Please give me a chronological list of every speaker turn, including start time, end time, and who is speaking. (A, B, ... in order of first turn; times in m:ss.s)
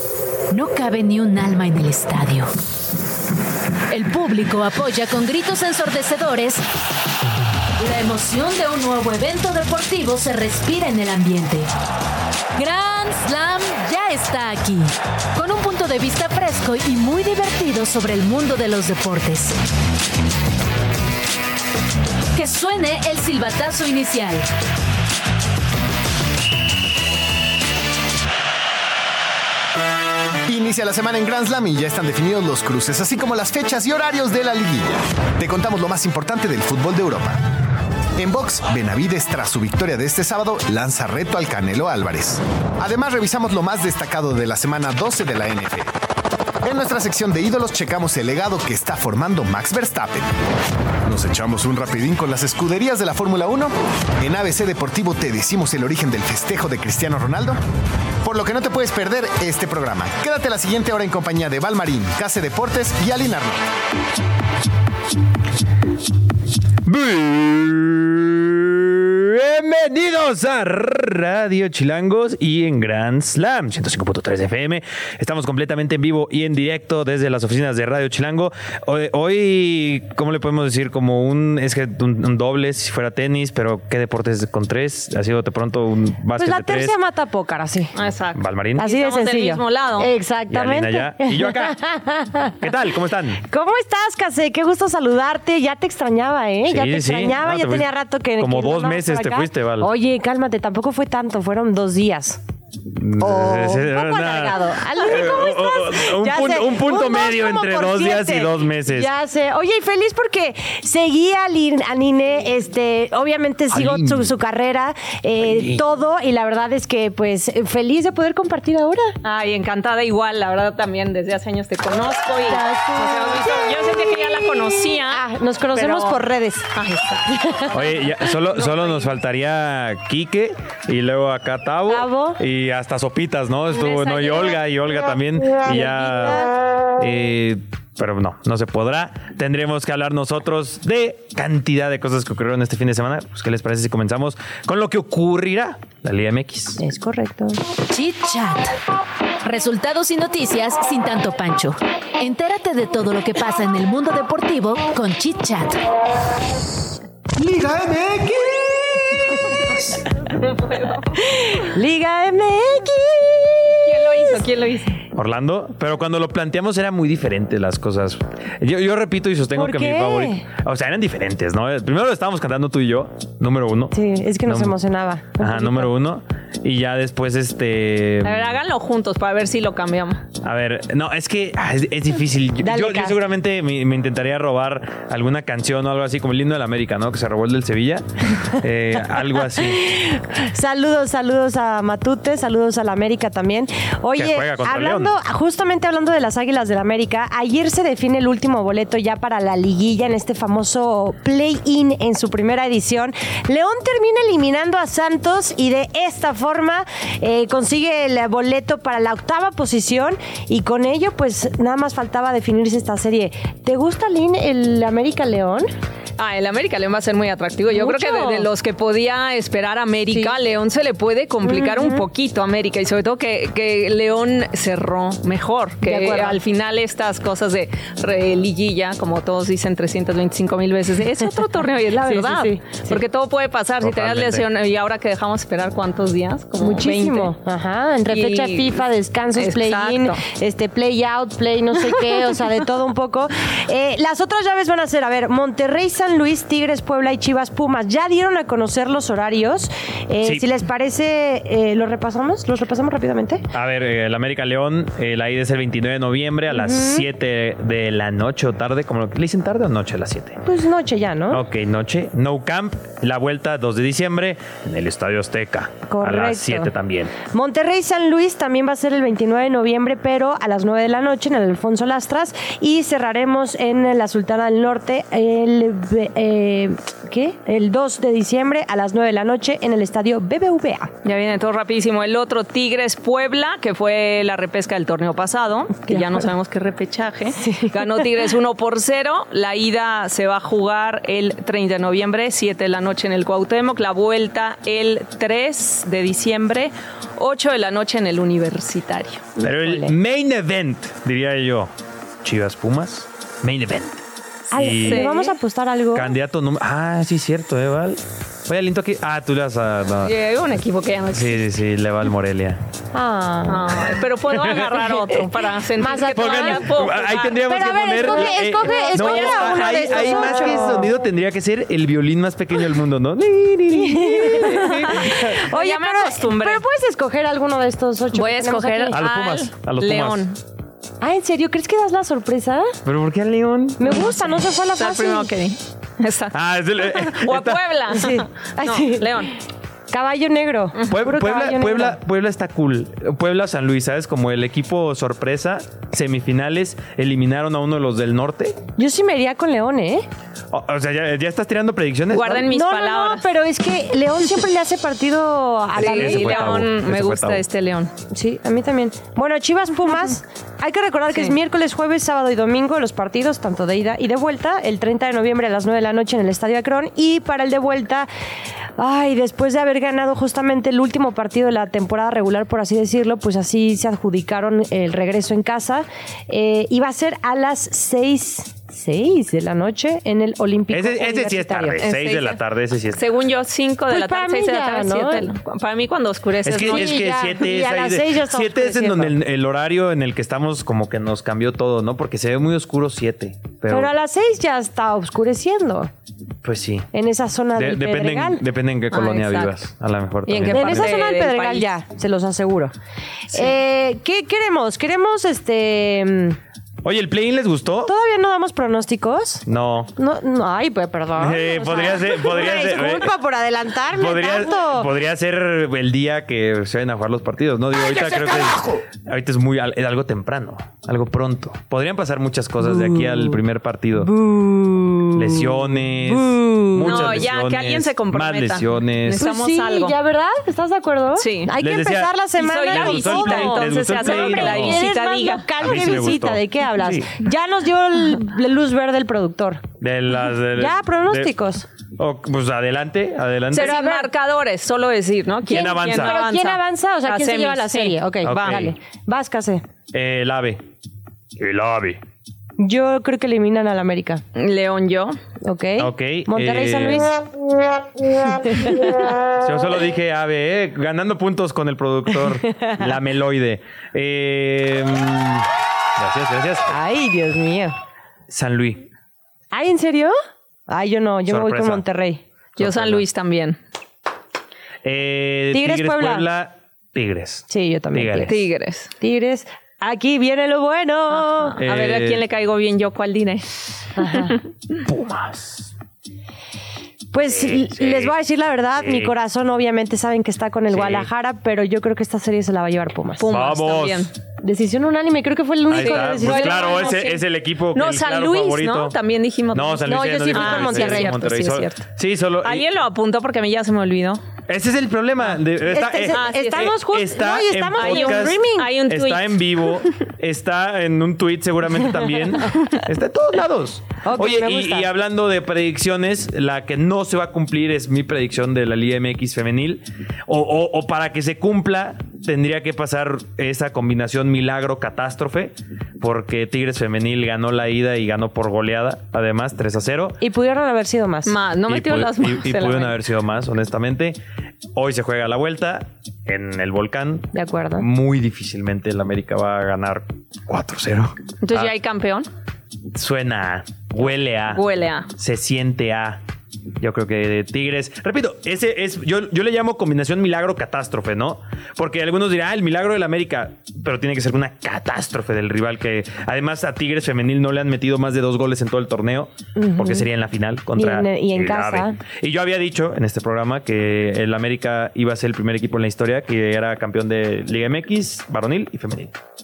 0:00.5-0:02.5 A
0:03.9-0:06.6 A
0:07.8-0:11.7 A
0:12.6-0:19.6 A
0:22.3-0:24.4 A
0:30.4-0:37.5 B
0:38.2-0:45.9 B
0:46.6-0:50.3 B
0:51.0-0:57.6 B
0:58.2-1:03.6 B
1:06.8-1:26.9 C
1:26.4-1:27.9 D
1:27.9-1:30.1 E
1:28.3-1:28.8 C
1:28.8-1:32.6 D
1:30.5-1:31.8 C
1:32.6-1:33.4 C
1:33.4-1:42.4 D
1:36.7-1:39.9 C
1:42.9-1:49.1 C
1:43.2-1:59.2 D
1:53.7-1:54.3 C
1:55.4-1:55.8 C
1:59.2-2:05.2 E
2:02.4-2:06.7 D
2:05.7-2:06.2 E
2:06.7-2:07.3 E
2:07.2-2:07.9 D
2:07.7-2:26.8 C
2:08.4-2:09.1 E
2:11.9-2:12.4 D
2:13.8-2:14.4 E
2:13.9-2:14.4 D
2:15.6-2:16.5 D
2:26.8-2:27.6 D
2:27.9-2:28.8 A
2:29.4-2:35.8 A
2:37.4-2:39.2 B
2:40.3-2:41.2 E
2:41.2-2:44.4 D
2:43.8-2:45.0 E
2:45.1-2:53.9 C
2:49.6-2:50.4 D
2:53.9-2:55.9 D
2:54.4-2:54.8 C
2:55.4-2:58.5 C
2:58.2-3:00.2 E
3:00.4-3:09.9 C
3:02.6-3:03.2 D
3:09.6-3:35.7 D
3:14.2-3:15.1 C
3:36.2-3:57.3 E
3:37.7-3:38.5 D
3:40.1-3:40.3 D
3:41.4-3:42.0 D
3:45.8-3:46.4 D
3:52.0-3:53.0 D
3:53.8-3:54.4 C
3:56.6-4:13.4 D
3:58.1-3:58.8 E
3:59.3-4:00.2 E
4:13.5-4:20.4 C
4:16.5-4:17.0 D
4:20.4-4:21.4 D
4:21.3-4:27.1 C
4:25.9-4:26.7 D
4:27.3-4:40.9 D
4:41.0-4:59.2 E
4:45.9-4:46.2 D
4:47.3-4:48.0 D
4:59.4-4:59.9 D
4:59.4-5:01.7 C
5:02.2-5:04.0 C
5:04.5-5:06.1 D
5:04.5-5:05.1 C
5:04.8-5:05.3 E
5:05.9-5:10.1 C
5:10.0-5:11.4 E
5:11.1-5:12.6 C
5:12.9-5:13.9 D
5:13.5-5:20.4 E
5:15.8-5:16.7 D
5:16.1-5:25.2 C
5:17.4-5:20.9 D
5:23.7-5:29.0 D
5:24.4-5:26.6 E
5:28.1-5:30.4 E
5:28.9-5:30.2 C
5:31.0-5:32.8 D
5:32.8-5:34.0 C
5:33.8-5:35.3 D
5:34.8-5:39.3 E
5:36.3-5:37.6 C
5:37.9-5:39.3 D
5:39.9-5:42.0 D
5:40.9-5:48.6 C
5:48.8-5:50.0 D
5:50.5-5:52.5 C
5:52.1-5:53.2 E
5:52.5-5:56.6 D
5:55.7-5:57.4 C
5:55.8-5:57.9 E
5:58.1-6:08.1 D
6:08.8-6:21.8 D
6:20.7-6:23.0 C
6:21.8-6:22.4 E
6:22.9-6:27.1 E
6:23.9-6:25.3 D
6:26.4-6:33.9 C
6:26.6-6:29.2 D
6:33.7-6:35.9 D
6:36.4-6:36.9 C
6:36.9-6:38.4 D
6:37.5-6:40.9 C
6:38.9-6:39.6 E
6:40.2-6:41.7 E
6:40.4-6:42.7 D
6:43.3-6:46.4 D
6:46.8-6:47.9 C
6:47.9-6:49.4 D
6:49.4-6:49.9 C
6:50.0-6:54.9 D
6:51.2-6:53.1 C
6:53.9-7:04.1 C
7:02.7-7:03.4 D
7:04.0-7:07.3 D
7:05.1-7:09.2 C
7:06.8-7:09.9 E
7:09.2-7:19.6 D
7:11.2-7:11.5 E
7:11.6-7:12.1 C
7:12.4-7:16.2 E
7:12.6-7:14.8 C
7:15.6-7:17.1 C
7:19.8-7:21.3 C
7:20.6-7:21.6 D
7:22.0-7:23.8 C
7:23.5-7:24.1 D
7:23.5-7:28.6 E
7:25.4-7:29.6 D
7:25.5-7:26.2 C
7:28.2-7:28.7 C
7:29.9-7:30.6 C
7:31.4-7:32.0 C
7:32.6-7:34.2 D
7:34.3-7:35.2 E
7:35.4-7:37.2 D
7:35.8-7:37.1 C
7:38.1-7:39.0 D
7:39.4-7:46.7 C
7:42.5-7:42.8 D
7:46.7-7:47.7 D
7:48.3-7:48.9 C
7:49.5-7:50.1 D
7:50.7-7:52.2 D
7:51.3-7:51.8 C
7:52.6-7:53.0 C
7:52.6-7:53.6 E
7:54.8-7:58.4 C
7:55.5-7:56.2 D
7:57.5-7:58.4 D
7:58.3-7:58.9 E
7:59.0-8:01.6 D
8:01.3-8:04.4 E
8:01.6-8:02.2 C
8:04.0-8:04.4 D
8:04.8-8:05.7 C
8:07.1-8:13.3 D
8:07.3-8:08.1 C
8:08.8-8:09.1 C
8:10.7-8:11.1 C
8:13.2-8:14.1 E
8:13.3-8:14.1 C
8:14.4-8:17.0 D
8:15.7-8:18.9 C
8:15.7-8:17.2 E
8:17.7-8:21.8 E
8:19.5-8:22.6 C
8:19.9-8:21.6 D
8:22.4-8:24.2 E
8:24.5-8:50.2 C
8:25.6-8:28.7 D
8:26.1-8:26.8 E
8:27.8-8:29.9 E
8:34.0-8:34.9 D
8:50.2-8:51.3 D
8:51.2-8:53.0 E
8:51.7-8:54.2 C
8:54.7-9:01.7 C
8:57.3-8:57.8 D
9:01.4-9:02.3 E
9:02.9-9:06.2 C
9:04.5-9:05.1 E
9:06.8-9:29.2 C
9:19.6-9:20.1 D
9:20.7-9:22.0 D